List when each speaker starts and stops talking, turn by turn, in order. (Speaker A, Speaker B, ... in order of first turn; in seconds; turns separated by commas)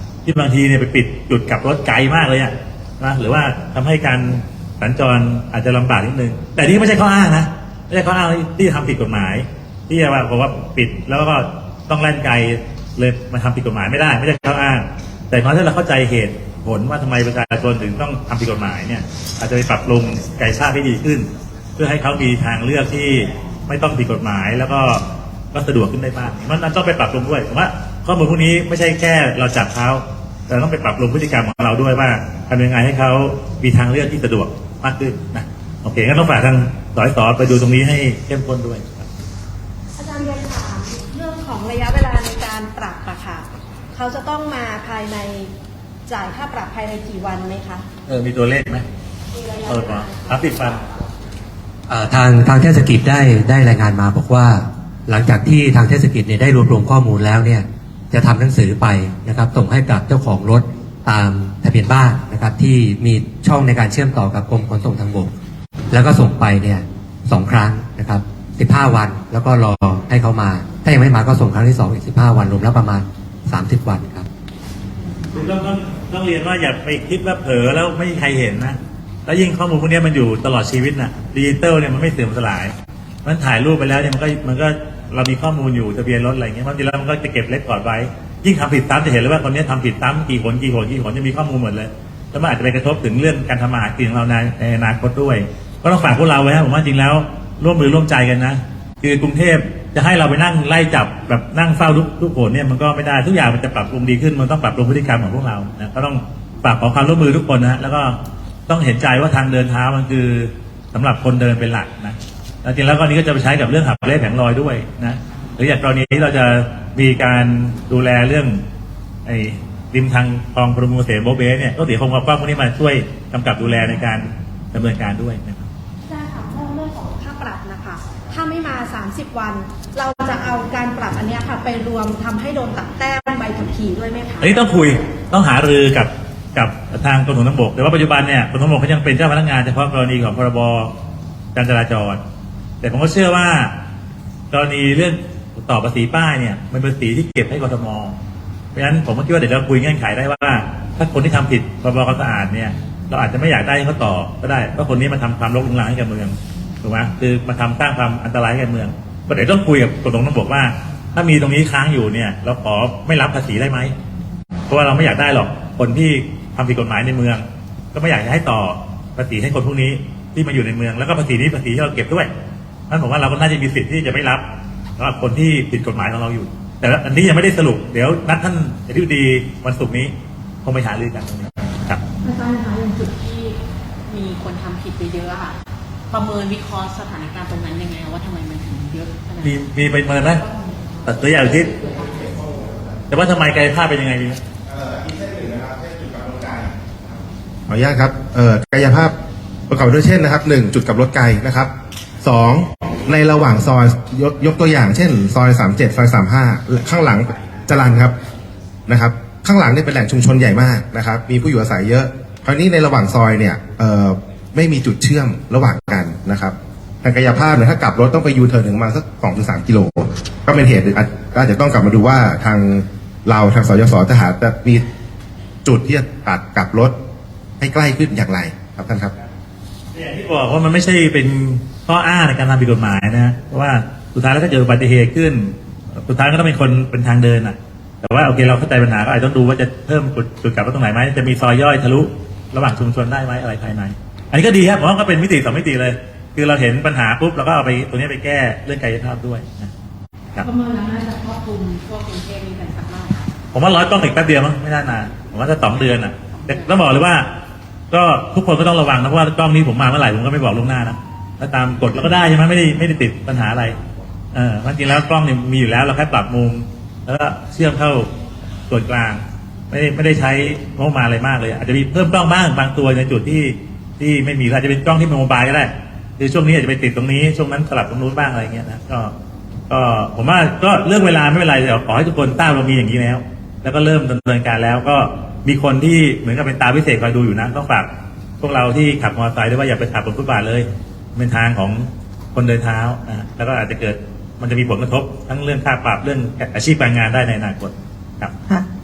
Speaker A: 0.2-39.1, Speaker B: 40.0-45.5, Speaker B: 46.1-47.9, Speaker A: 48.1-48.9, Speaker B: 49.3-50.1, Speaker A: 49.7-50.8, Speaker C: 51.9-65.3, Speaker C: 65.9-74.3, Speaker A: 75.3-82.7, Speaker A: 83.2-108.2, Speaker A: 108.7-118.6, Speaker A: 119.3-125.7, Speaker B: 126.1-134.7, Speaker A: 134.4-140.9, Speaker A: 141.6-142.2, Speaker A: 142.8-143.8, Speaker A: 144.5-148.2, Speaker A: 148.7-163.9, Speaker A: 164.7-172.3, Speaker A: 172.9-174.4, Speaker A: 175.0-180.1, Speaker A: 180.6-182.0, Speaker D: 182.2-183.6, Speaker D: 184.1-185.6, Speaker D: 186.1-189.6, Speaker A: 189.4-190.4, Speaker A: 191.1-191.7, Speaker E: 192.0-192.9, Speaker A: 193.1-194.4, Speaker E: 194.7-199.1, Speaker E: 199.7-201.7, Speaker E: 202.2-208.2, Speaker E: 208.9-224.8, Speaker E: 225.7-226.9, Speaker E: 227.6-229.1, Speaker A: 229.9-249.7, Speaker D: 250.4-253.3, Speaker A: 253.5-257.3, Speaker D: 256.3-256.7, Speaker A: 257.9-263.8, Speaker A: 264.3-268.1, Speaker A: 268.7-279.1, Speaker A: 279.7-287.9, Speaker A: 288.4-298.3